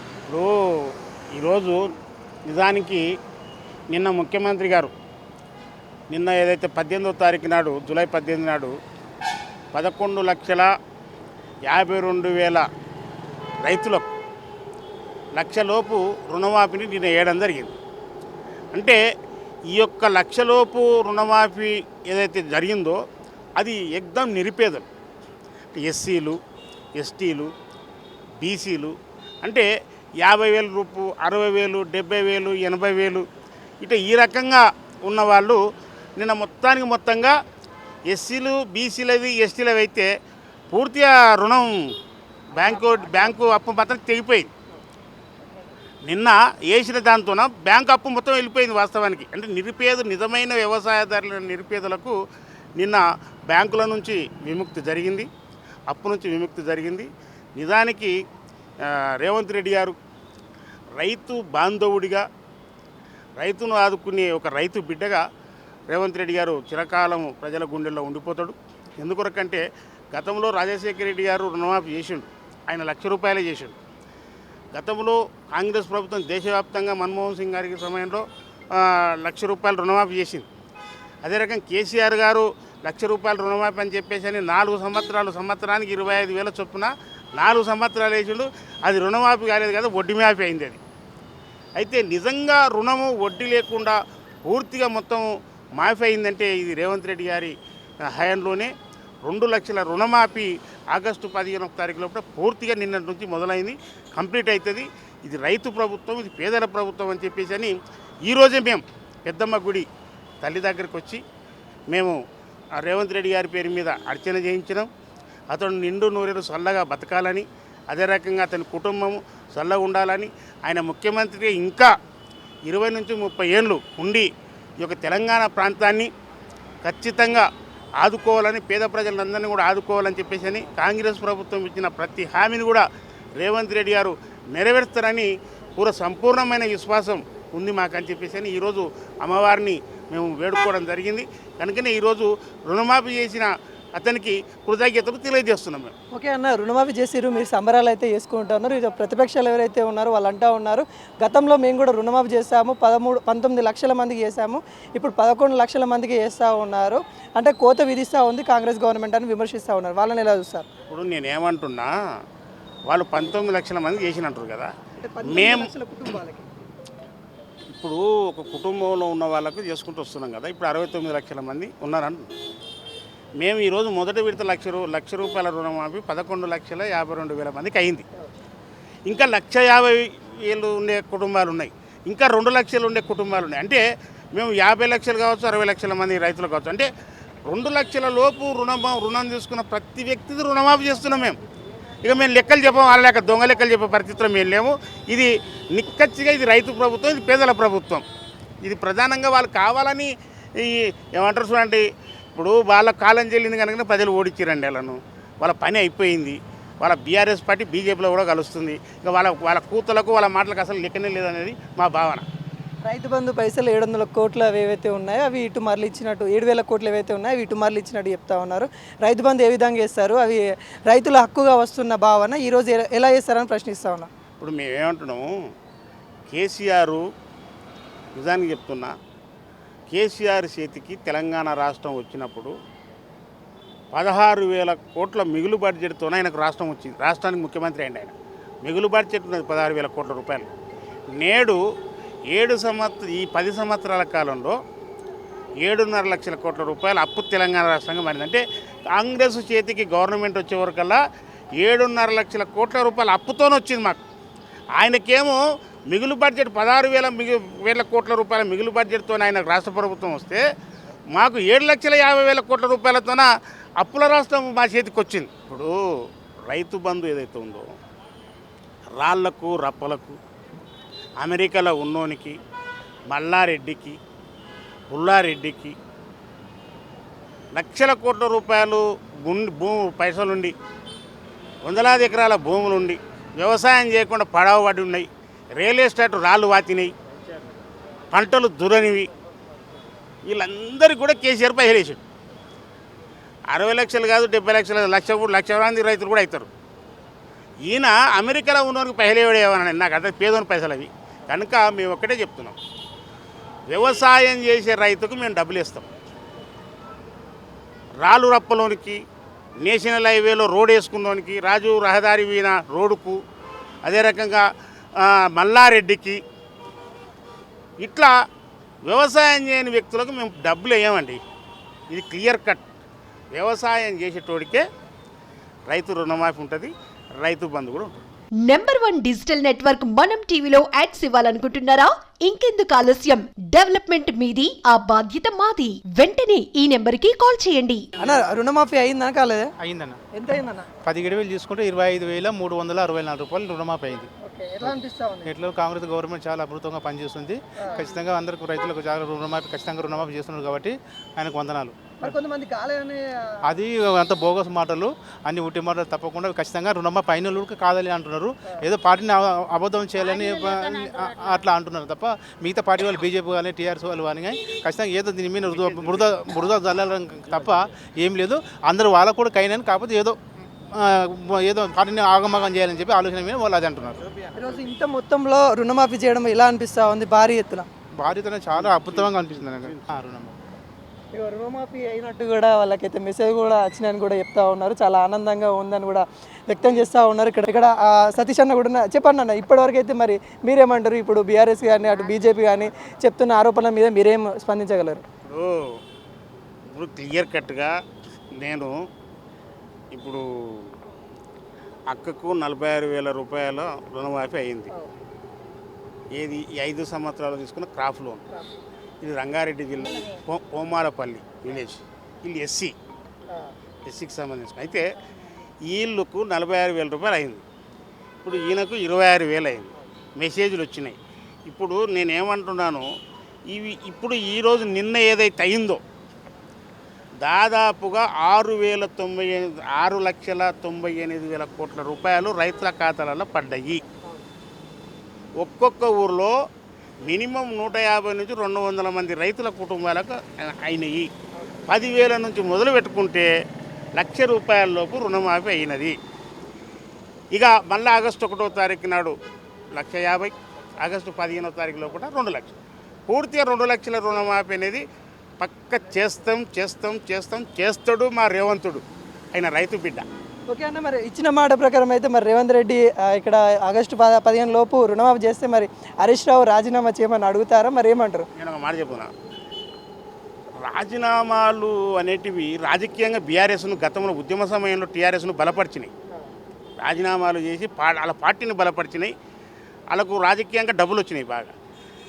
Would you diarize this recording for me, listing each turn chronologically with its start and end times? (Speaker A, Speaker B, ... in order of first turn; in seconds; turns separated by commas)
Speaker A: 0.3-1.8, Speaker A: 2.5-3.0, Speaker A: 3.9-4.9, Speaker A: 6.1-8.7, Speaker A: 9.7-10.7, Speaker A: 11.7-12.6, Speaker A: 13.6-14.1, Speaker A: 15.3-17.8, Speaker A: 19.7-22.9, Speaker A: 23.6-24.9, Speaker A: 25.8-26.4, Speaker A: 26.9-27.5, Speaker A: 28.4-29.6, Speaker A: 30.2-33.2, Speaker A: 33.8-35.6, Speaker A: 36.2-37.3, Speaker A: 38.1-40.1, Speaker A: 40.7-41.7, Speaker A: 42.5-44.5, Speaker A: 46.1-52.1, Speaker A: 52.8-55.3, Speaker A: 55.9-58.1, Speaker A: 58.8-60.0, Speaker A: 61.0-62.2, Speaker A: 63.4-65.2, Speaker A: 65.9-73.8, Speaker A: 74.7-80.5, Speaker A: 81.2-90.8, Speaker A: 91.8-97.5, Speaker A: 98.0-98.7, Speaker A: 99.2-107.7, Speaker A: 108.2-109.9, Speaker A: 110.4-111.2, Speaker A: 111.9-112.2, Speaker A: 112.8-114.9, Speaker A: 115.5-121.9, Speaker A: 122.7-124.3, Speaker A: 124.8-126.1, Speaker A: 126.8-127.5, Speaker A: 128.0-132.8, Speaker A: 133.4-145.9, Speaker B: 146.1-160.7, Speaker A: 160.9-161.9, Speaker A: 162.9-164.7, Speaker B: 165.0-166.5, Speaker A: 165.2-165.7, Speaker A: 167.7-172.3, Speaker A: 173.4-178.1, Speaker A: 179.1-186.9, Speaker A: 187.4-191.4, Speaker A: 192.0-198.0, Speaker A: 198.6-201.8, Speaker A: 202.3-212.2, Speaker B: 212.8-224.1, Speaker A: 224.4-225.3, Speaker A: 226.3-227.0, Speaker A: 228.2-228.9, Speaker A: 229.9-232.5, Speaker A: 233.9-240.5, Speaker A: 241.1-241.6, Speaker A: 242.3-244.6, Speaker A: 245.6-251.0, Speaker A: 251.6-254.0, Speaker A: 254.8-260.4, Speaker A: 261.1-265.7, Speaker A: 266.5-267.7, Speaker A: 268.9-270.2, Speaker A: 271.2-272.4, Speaker A: 273.1-274.0, Speaker A: 274.9-275.8, Speaker A: 277.5-280.5, Speaker A: 281.6-286.9, Speaker A: 288.1-289.1, Speaker A: 290.2-292.0, Speaker A: 293.5-296.5, Speaker A: 297.6-302.6, Speaker A: 303.7-305.9, Speaker A: 308.0-309.0, Speaker A: 309.6-313.2, Speaker A: 313.8-314.4, Speaker A: 315.0-316.2, Speaker A: 317.8-318.1, Speaker A: 318.8-321.2, Speaker A: 321.9-322.6, Speaker A: 323.3-324.6, Speaker A: 325.7-328.0, Speaker C: 328.5-337.9, Speaker B: 338.0-339.5, Speaker D: 339.6-340.0, Speaker B: 340.1-340.7, Speaker D: 340.8-344.1, Speaker B: 344.2-345.3, Speaker D: 344.6-352.1, Speaker B: 352.0-353.0, Speaker D: 353.5-370.2, Speaker A: 365.7-366.0, Speaker D: 370.7-374.0, Speaker B: 374.3-377.7, Speaker D: 377.9-380.4, Speaker A: 378.6-379.7, Speaker B: 381.1-395.0, Speaker A: 395.2-395.6, Speaker A: 396.7-397.7, Speaker A: 398.4-398.7, Speaker A: 399.9-400.7, Speaker A: 401.9-404.7, Speaker A: 406.1-408.2, Speaker A: 409.0-412.7, Speaker A: 413.9-414.8, Speaker A: 415.7-417.4, Speaker A: 418.2-422.9, Speaker A: 423.5-425.8, Speaker A: 427.2-433.8, Speaker A: 435.4-436.3, Speaker A: 437.1-441.1, Speaker A: 441.7-443.3, Speaker A: 444.0-445.9, Speaker A: 447.3-449.2, Speaker A: 449.7-452.6, Speaker A: 453.1-454.8, Speaker A: 455.4-460.0, Speaker B: 460.5-468.3, Speaker A: 468.4-469.1, Speaker A: 470.7-475.9, Speaker A: 476.8-479.1, Speaker A: 479.9-481.5